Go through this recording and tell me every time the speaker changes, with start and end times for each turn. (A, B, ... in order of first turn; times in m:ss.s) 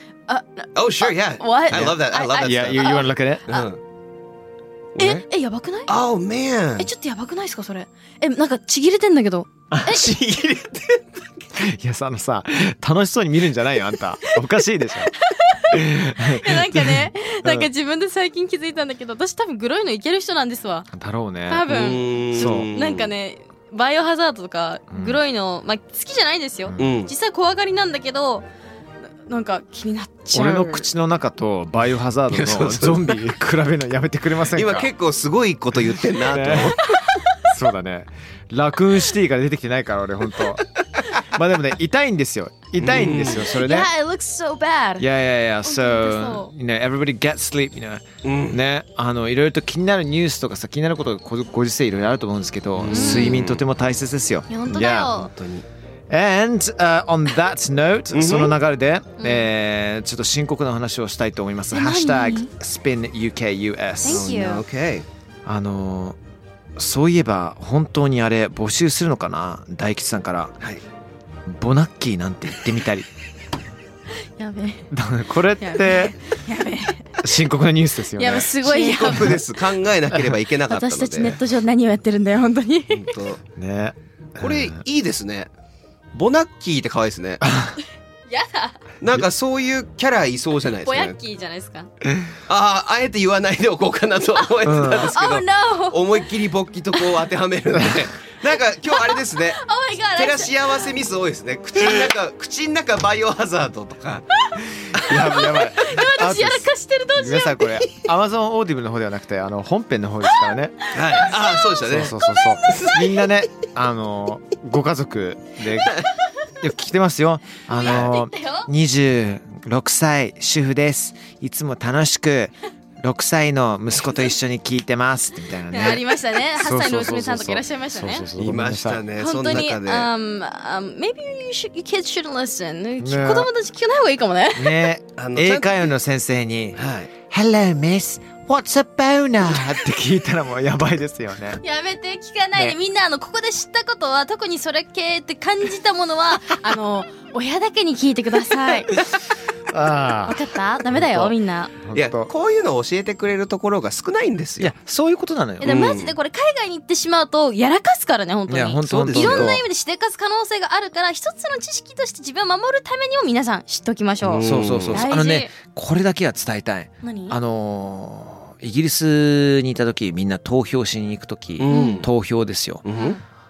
0:00.3-0:03.7 A
0:00.8-0:02.9 B
0:01.7-0:03.5 C
0:03.5-0:03.8 B
0:05.0-0:05.2 B
0:05.0-0:05.9 A
0:05.9-0:06.9 B
0:06.8-0:10.1 A
0:09.7-0:10.1 C
0:10.2-0:11.0 B
0:11.6-0:15.1 C
0:15.2-0:20.9 A
0:15.7-0:17.7 C
0:20.9-0:21.7 C
0:21.5-0:28.5 A
0:21.7-0:23.1 B
0:22.3-0:22.7 C
0:24.9-0:25.2 C
0:26.6-0:27.0 C
0:26.8-0:27.1 B
0:29.3-0:30.9 A
0:30.3-0:34.9 C
0:32.3-0:33.1 B
0:34.5-0:36.8 B
0:36.0-0:36.8 C
0:37.4-0:40.7 C
0:41.2-0:43.9 C
0:42.8-0:43.4 B
0:43.5-0:45.1 A
0:45.0-0:55.1 C
0:45.6-0:46.5 A
0:48.2-0:48.6 B
0:52.8-0:53.6 B
0:52.9-0:53.4 A
0:54.5-0:55.3 A
0:55.2-0:55.6 B
0:56.1-1:04.3 C
0:58.1-0:58.6 B
0:59.2-0:59.5 A
1:01.7-1:02.5 A
1:04.0-1:04.6 A
1:04.1-1:05.1 B
1:05.5-1:06.2 C
1:06.8-1:10.6 C
1:11.5-1:13.1 C
1:14.4-1:14.9 A
1:14.9-1:16.2 C
1:15.6-1:17.1 A
1:17.2-1:18.5 C
1:18.2-1:19.6 A
1:18.6-1:21.4 B
1:19.1-1:19.4 C
1:20.7-1:23.1 A
1:22.9-1:23.4 B
1:23.6-1:24.8 C
1:24.4-1:25.5 B
1:26.1-1:27.4 B
1:27.4-1:27.8 C
1:28.3-1:28.8 A
1:29.0-1:31.2 B
1:30.8-1:31.9 A
1:32.5-1:39.6 B
1:34.4-1:36.3 A
1:34.6-1:35.1 C
1:37.7-1:38.1 C
1:38.9-1:40.9 A
1:40.2-1:44.2 B
1:44.5-1:47.9 A
1:44.8-1:50.8 C
1:50.9-1:52.1 B
1:51.0-1:51.7 A
1:51.8-1:56.0 C
1:52.7-1:53.0 B
1:56.6-2:09.1 C
1:57.7-1:58.7 A
2:05.7-2:08.3 A
2:08.4-2:10.1 B
2:09.2-2:14.9 A
2:13.0-2:13.5 C
2:14.6-2:21.6 C
2:15.2-2:15.8 B
2:16.8-2:17.1 B
2:21.6-2:29.0 A
2:29.7-2:30.4 C
2:30.2-2:31.7 A
2:30.9-2:32.3 C
2:31.9-2:34.7 B
2:34.6-2:35.8 C
2:35.6-2:45.5 A
2:35.7-2:36.2 B
2:38.5-2:39.6 C
2:38.9-2:39.5 B
2:44.2-2:45.0 B
2:44.4-2:52.9 C
2:47.0-2:47.4 A
2:51.6-2:52.1 B
2:51.7-2:52.1 A
2:52.9-2:53.1 B
2:52.9-2:53.2 A